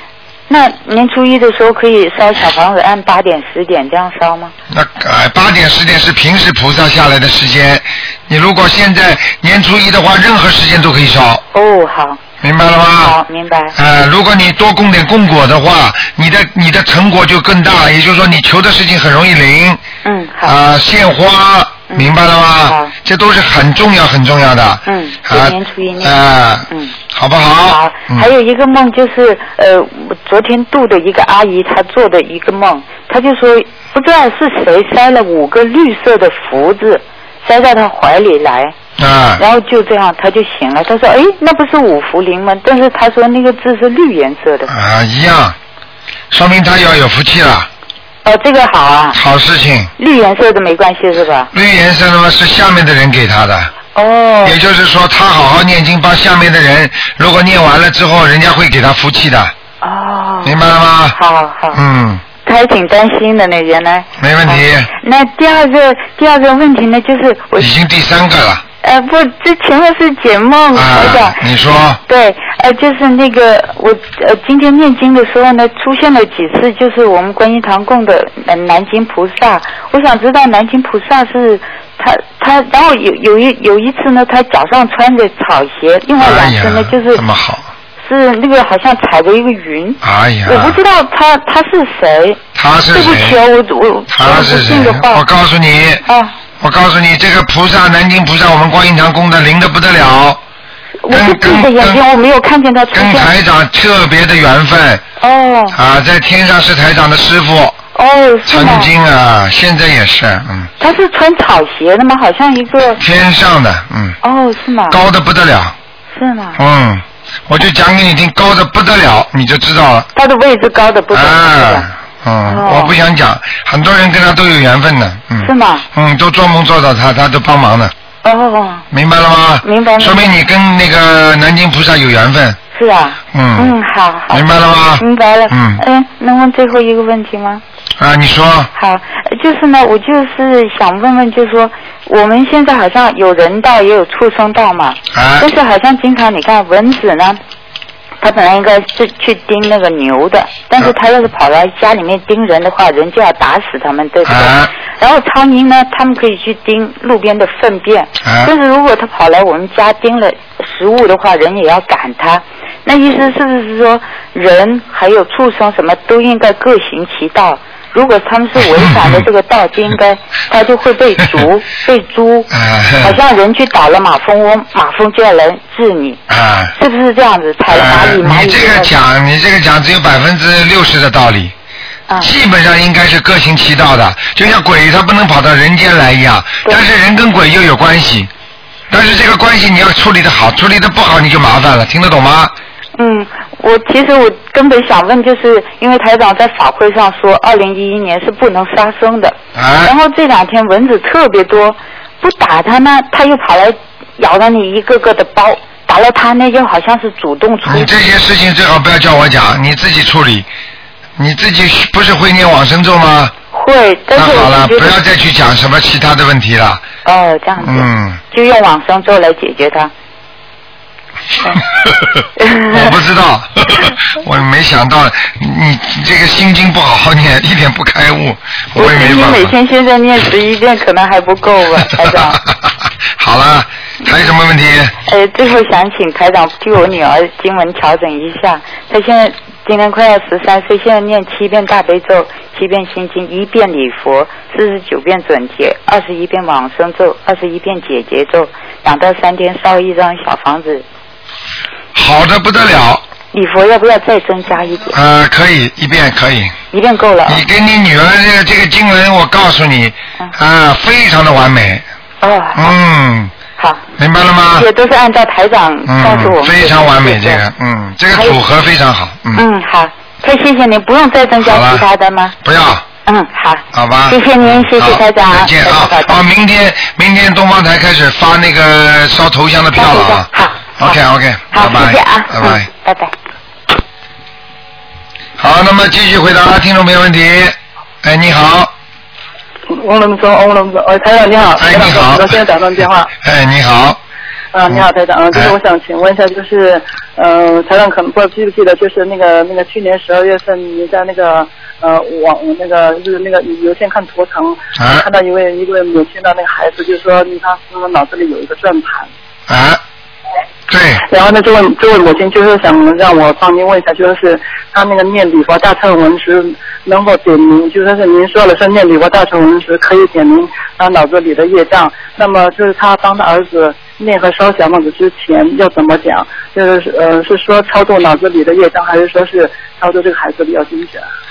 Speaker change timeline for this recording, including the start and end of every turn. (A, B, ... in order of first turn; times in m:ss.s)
0:00.5-0:04.5 A
0:04.7-0:11.4 B
0:11.5-0:12.2 A
0:12.4-0:13.2 B
0:13.0-0:13.8 A
0:13.8-0:19.8 B
0:20.0-0:20.6 A
0:20.4-0:28.3 B
0:21.9-0:22.9 A
0:24.8-0:26.2 A
0:26.7-0:26.9 A
0:27.6-0:38.7 A
0:39.0-0:39.4 B
0:39.4-0:44.7 A
0:44.7-0:45.6 B
0:46.3-0:47.7 B
0:48.2-0:49.2 A
0:49.1-0:49.9 B
0:50.0-0:51.5 A
0:51.5-0:53.7 B
0:53.9-0:54.6 A
0:54.4-0:59.5 B
0:59.8-1:00.6 A
1:00.4-1:01.2 B
1:01.1-1:01.8 A
1:01.7-1:02.2 B
1:02.4-1:07.7 A
1:04.2-1:04.9 B
1:07.6-1:08.6 B
1:08.8-1:11.4 A
1:10.7-1:12.0 B
1:12.0-1:27.2 A
1:26.2-1:27.6 B
1:28.0-1:35.2 A
1:30.0-1:30.8 B
1:32.5-1:33.4 B
1:34.1-1:36.0 B
1:36.0-1:36.3 A
1:36.6-1:40.4 B
1:41.0-1:43.3 A
1:41.1-1:42.0 B
1:42.9-1:45.0 B
1:45.2-1:45.8 A
1:45.7-1:47.7 B
1:47.9-1:48.9 A
1:48.5-1:50.7 B
1:50.8-1:53.0 A
1:53.0-1:54.2 B
1:54.2-1:55.0 A
1:54.9-1:55.7 B
1:56.1-1:56.6 A
1:56.6-2:00.1 B
2:00.1-2:01.9 A
2:01.1-2:07.9 B
2:02.4-2:02.9 A
2:05.4-2:05.8 A
2:08.2-2:08.8 A
2:08.9-2:12.6 B
2:09.6-2:10.3 A
2:12.7-2:17.6 A
2:13.3-2:13.7 B
2:14.3-2:15.8 B
2:18.0-2:18.7 B
2:18.7-2:27.4 A
2:25.1-2:25.5 B
2:28.2-2:56.2 A
2:34.2-2:34.7 B
2:38.2-2:38.5 B
2:48.6-2:49.3 B
2:52.5-2:53.2 B
2:56.3-2:56.7 B
2:56.8-2:58.9 A
2:57.7-3:01.5 B
3:02.2-3:08.3 B
3:08.9-3:12.5 B
3:13.0-3:27.9 A
3:19.5-3:19.9 B
3:27.6-3:30.5 B
3:31.2-3:33.3 B
3:33.5-3:35.0 A
3:34.1-3:36.8 B
3:37.0-3:39.9 A
3:37.6-3:38.2 B
3:41.8-3:49.5 B
3:42.4-3:42.9 A
3:48.7-3:52.4 A
3:53.2-3:54.9 B
3:55.0-4:10.8 A
4:11.9-4:13.0 B
4:13.3-4:15.0 A
4:14.9-4:16.5 B
4:16.7-4:17.4 A
4:17.2-4:21.8 B
4:22.2-4:22.7 A
4:22.5-4:23.3 B
4:24.0-4:24.7 B
4:24.6-4:27.4 A
4:25.8-4:29.4 B
4:28.1-4:28.4 A
4:29.3-4:32.3 A
4:31.4-4:31.8 B
4:32.4-4:32.8 B
4:33.0-4:36.2 A
4:33.7-4:40.3 B
4:39.8-4:41.0 A
4:40.8-4:42.7 B
4:41.5-4:43.1 A
4:45.4-4:48.7 B
4:49.7-4:53.1 C
4:51.6-4:52.4 B
4:53.2-4:54.0 B
4:54.5-5:09.1 C
5:04.8-5:05.0 B
5:09.5-5:09.8 B
5:10.7-5:11.0 B
5:11.0-5:31.0 C